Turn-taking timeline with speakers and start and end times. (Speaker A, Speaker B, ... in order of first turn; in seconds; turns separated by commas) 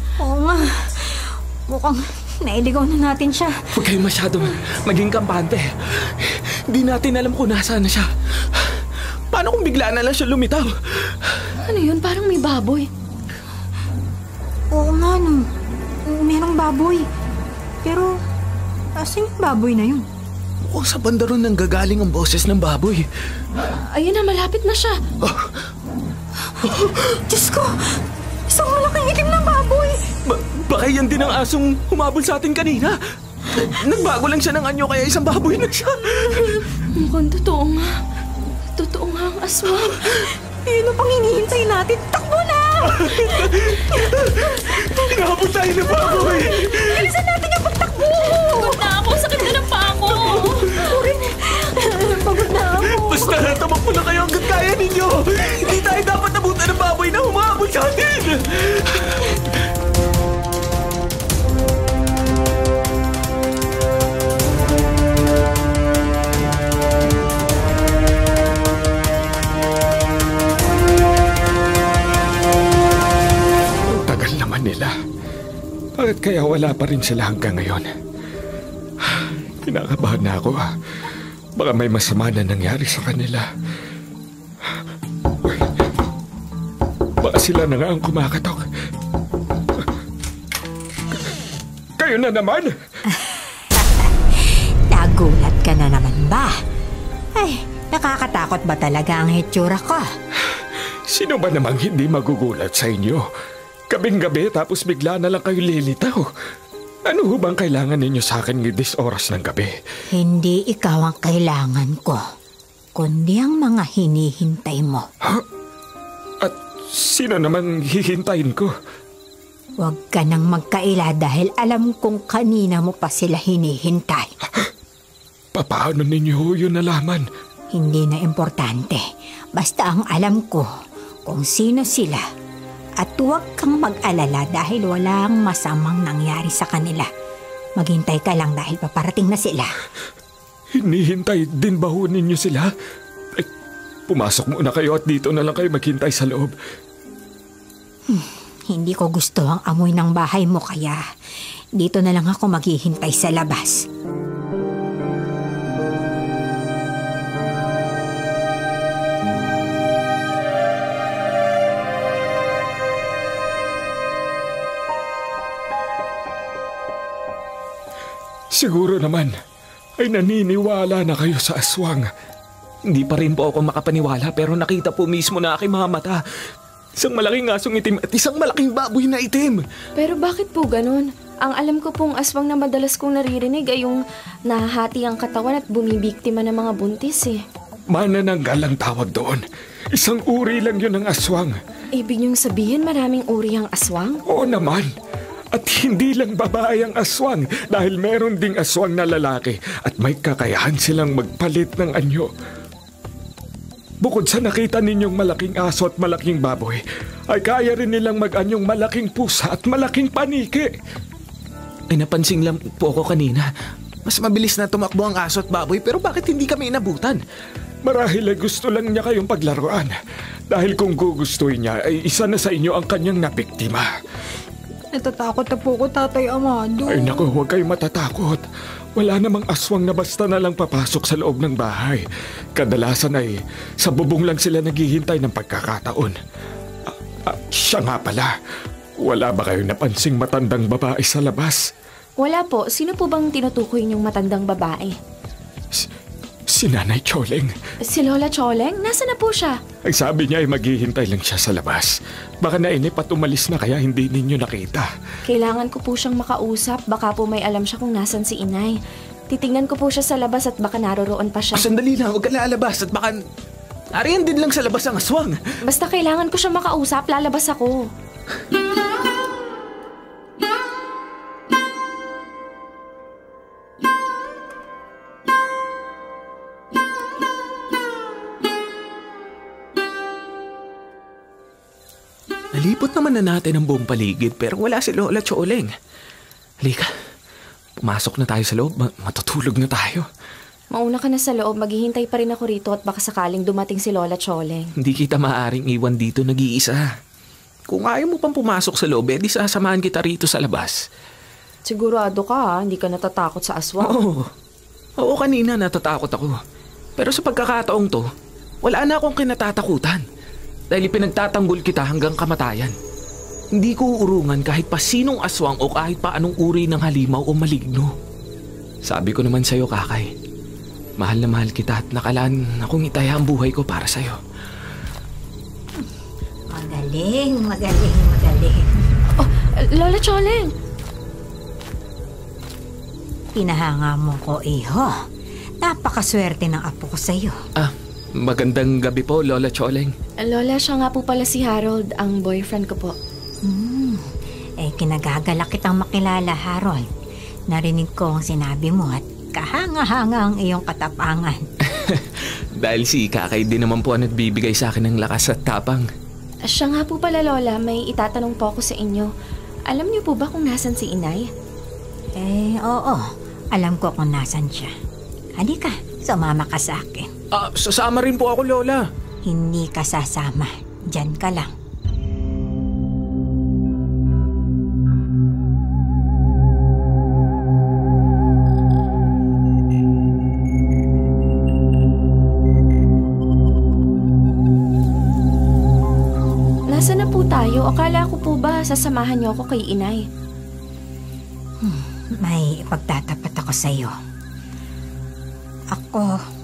Speaker A: 0.2-3.8, Speaker B: 3.7-11.4, Speaker C: 11.6-12.9, Speaker A: 14.7-15.5, Speaker A: 16.0-17.1, Speaker A: 17.8-18.1, Speaker A: 18.9-20.1, Speaker B: 20.6-23.1, Speaker C: 23.8-25.0, Speaker B: 25.2-25.6, Speaker A: 26.4-26.7, Speaker B: 26.7-27.0, Speaker A: 27.3-29.9, Speaker B: 30.2-33.0, Speaker B: 33.5-36.6, Speaker C: 36.7-38.0, Speaker C: 38.7-40.1, Speaker A: 40.5-43.6, Speaker B: 42.9-47.1, Speaker A: 46.1-49.6, Speaker C: 48.2-50.8, Speaker A: 50.6-53.4, Speaker B: 52.9-59.6, Speaker D: 73.9-74.9, Speaker D: 76.0-77.9, Speaker D: 79.0-80.7, Speaker D: 81.6-83.5, Speaker D: 85.4-85.7, Speaker D: 87.2-88.7, Speaker D: 92.0-92.7, Speaker A: 93.0-96.6, Speaker A: 97.3-100.1, Speaker D: 100.5-103.3, Speaker D: 103.9-106.3, Speaker D: 107.1-109.7, Speaker A: 110.1-112.2, Speaker A: 112.9-115.1, Speaker D: 116.4-118.7, Speaker A: 119.8-124.3, Speaker D: 125.5-127.2, Speaker A: 127.7-130.7, Speaker A: 131.2-132.2, Speaker A: 133.0-137.1, Speaker A: 137.8-139.7, Speaker D: 140.7-142.7, Speaker D: 144.1-146.5, Speaker A: 148.1-151.0, Speaker A: 151.8-153.8, Speaker D: 168.5-169.3, Speaker D: 170.0-172.1, Speaker B: 172.9-176.2, Speaker B: 177.0-179.6, Speaker C: 180.0-187.4, Speaker D: 187.9-191.6, Speaker C: 192.0-194.2, Speaker D: 194.3-194.9, Speaker D: 195.5-202.3, Speaker D: 204.0-210.7, Speaker B: 211.9-213.5, Speaker B: 214.1-217.2, Speaker D: 217.8-219.9, Speaker D: 220.5-223.9, Speaker A: 224.9-227.3, Speaker D: 226.9-228.4, Speaker D: 229.0-232.0, Speaker D: 232.6-236.2, Speaker D: 236.9-238.3, Speaker D: 239.0-241.6, Speaker C: 242.2-245.0, Speaker D: 246.5-247.6, Speaker C: 247.9-249.6, Speaker D: 249.8-254.9, Speaker C: 255.3-258.8, Speaker C: 259.3-261.7, Speaker B: 261.5-263.2, Speaker B: 263.9-265.4, Speaker C: 265.6-267.9, Speaker B: 282.5-285.7, Speaker B: 286.6-286.9, Speaker B: 287.8-290.1, Speaker C: 290.7-294.7, Speaker B: 294.8-296.9, Speaker B: 297.7-300.8, Speaker C: 301.7-304.0, Speaker B: 303.8-304.3, Speaker B: 305.0-306.4, Speaker B: 307.0-308.1, Speaker B: 308.6-310.0, Speaker B: 310.7-312.7, Speaker B: 313.6-317.9, Speaker B: 318.8-320.1, Speaker B: 321.0-324.2, Speaker A: 326.5-328.7, Speaker C: 329.2-330.5, Speaker A: 333.3-334.9, Speaker A: 335.6-337.4, Speaker B: 337.6-339.9, Speaker C: 340.2-342.9, Speaker A: 343.4-346.9, Speaker A: 347.5-351.5, Speaker B: 351.6-355.9, Speaker C: 356.4-359.1, Speaker C: 359.7-361.3, Speaker A: 362.2-364.7, Speaker A: 365.4-367.1, Speaker B: 367.3-368.8, Speaker A: 369.2-371.5, Speaker C: 386.7-390.0, Speaker A: 391.6-393.9, Speaker A: 395.7-396.2